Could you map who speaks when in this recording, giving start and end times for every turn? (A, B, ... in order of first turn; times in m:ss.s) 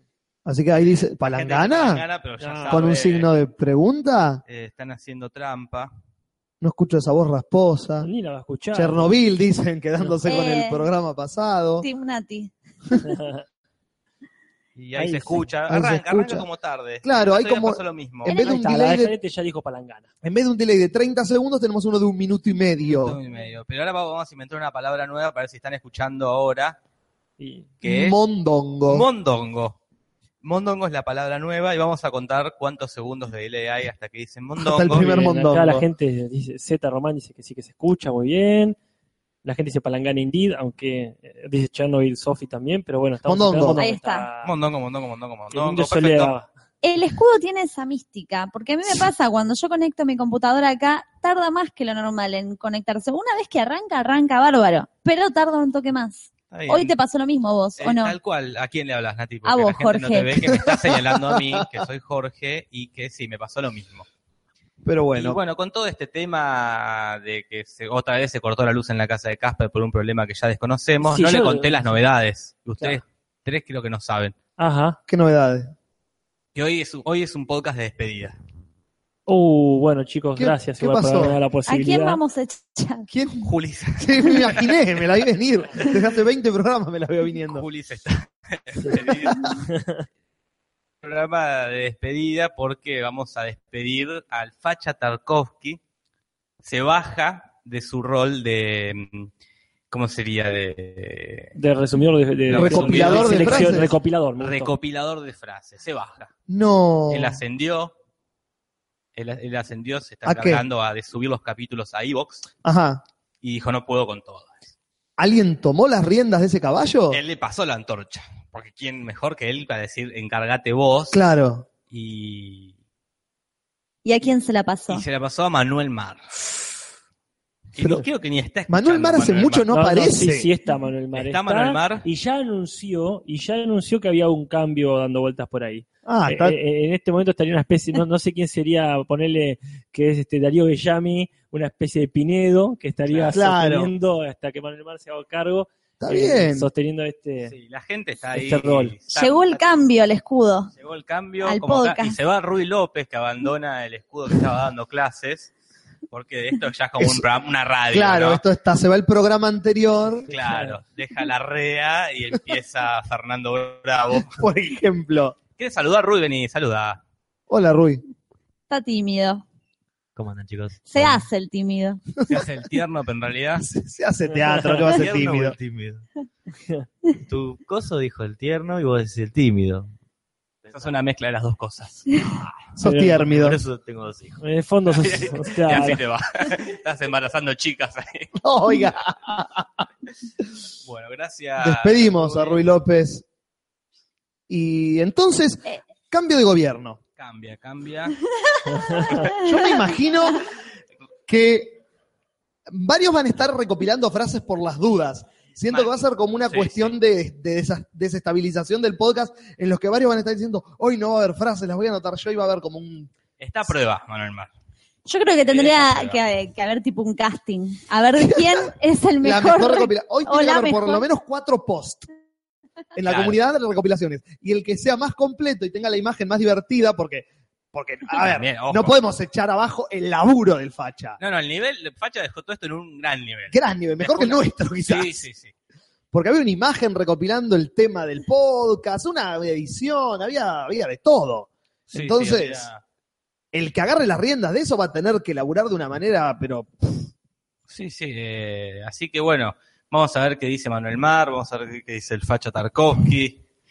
0:00.4-0:02.0 A
0:01.2-0:03.3 B
0:02.4-0:02.8 C
0:02.7-0:04.4 A
0:04.5-0:05.9 B
0:06.6-0:08.1 A
0:08.0-0:09.1 C
0:08.7-0:11.9 A
0:10.2-0:10.8 D
0:11.8-0:12.5 D
0:13.0-0:13.4 C
0:14.8-0:18.3 B
0:15.0-0:15.5 C
0:15.7-0:16.5 A
0:17.0-0:19.1 A
0:18.3-0:18.5 D
0:18.4-0:20.1 C
0:20.2-0:23.2 A
0:22.8-0:26.8 B
0:27.4-0:27.7 C
0:27.8-0:28.2 B
0:27.8-0:29.0 A
0:28.9-0:29.8 B
0:30.4-0:35.0 B
0:34.6-0:35.8 A
0:34.9-0:38.8 C
0:39.4-0:44.5 C
0:43.2-0:43.8 A
0:43.8-0:44.2 D
0:44.4-0:46.3 B
0:45.5-0:46.5 C
0:46.8-0:58.2 D
0:56.5-0:56.9 B
0:57.8-1:04.0 B
0:59.4-1:00.5 D
1:00.5-1:01.6 A
1:04.8-1:05.4 A
1:05.1-1:14.3 B
1:11.0-1:11.7 C
1:14.6-1:15.0 C
1:15.1-1:15.7 A
1:16.5-1:18.3 B
1:19.3-1:22.2 C
1:20.4-1:21.4 A
1:21.7-1:23.0 D
1:23.1-1:27.6 A
1:23.4-1:24.8 B
1:27.5-1:29.5 B
1:29.6-1:30.0 C
1:31.0-1:35.8 B
1:36.6-1:39.3 B
1:39.9-1:41.5 B
1:41.5-1:44.7 C
1:42.5-1:43.9 B
1:42.5-1:43.9 A
1:44.4-1:46.3 B
1:46.5-1:47.4 A
1:47.1-1:47.9 B
1:49.2-1:52.4 B
1:50.2-1:50.6 A
1:52.6-1:53.0 A
1:53.4-1:54.7 B
1:55.2-1:57.2 A
1:57.1-2:01.2 B
2:01.1-2:01.6 A
2:01.9-2:02.7 B
2:04.0-2:05.0 D
2:04.9-2:06.4 B
2:07.7-2:09.7 B
2:08.7-2:10.5 A
2:09.7-2:27.5 C
2:11.1-2:12.0 B
2:16.0-2:16.6 A
2:23.1-2:23.4 B
2:23.3-2:23.9 A
2:26.0-2:26.7 A
2:27.4-2:29.6 B
2:28.3-2:28.9 C
2:29.1-2:30.7 D
2:30.8-2:35.5 B
2:31.4-2:32.1 D
2:36.1-2:38.4 B
2:37.9-2:40.3 A
2:40.3-2:44.4 B
2:40.5-2:40.8 C
2:44.3-2:45.4 A
2:45.6-2:47.0 B
2:47.5-2:48.0 A
2:48.7-2:49.4 D
2:50.1-2:51.2 E
2:50.8-2:52.0 D
2:52.2-2:53.6 B
2:53.6-2:55.6 A
2:54.5-2:54.8 C
2:54.8-2:56.0 E
2:57.2-2:59.9 E
3:00.6-3:00.9 E
3:00.7-3:02.1 B
3:02.8-3:03.6 A
3:02.8-3:03.2 C
3:03.3-3:04.4 E
3:04.4-3:06.0 C
3:04.9-3:08.3 B
3:08.4-3:09.8 A
3:10.8-3:12.6 B
3:11.6-3:13.2 A
3:14.5-3:17.0 A
3:17.2-3:18.2 B
3:18.7-3:19.0 C
3:19.0-3:20.0 D
3:19.3-3:20.4 A
3:21.3-3:21.8 A
3:22.7-3:33.1 A
3:25.7-3:27.0 B
3:33.4-3:34.5 B
3:35.0-3:41.0 D
3:35.5-3:36.2 B
3:39.2-3:42.1 A
3:42.9-3:51.2 A
3:43.0-3:43.4 B
3:48.1-3:49.0 B
3:51.2-3:55.5 B
3:53.5-3:55.2 A
3:56.1-4:02.7 A
4:01.9-4:02.8 B
4:03.5-4:07.0 A
4:07.7-4:13.4 B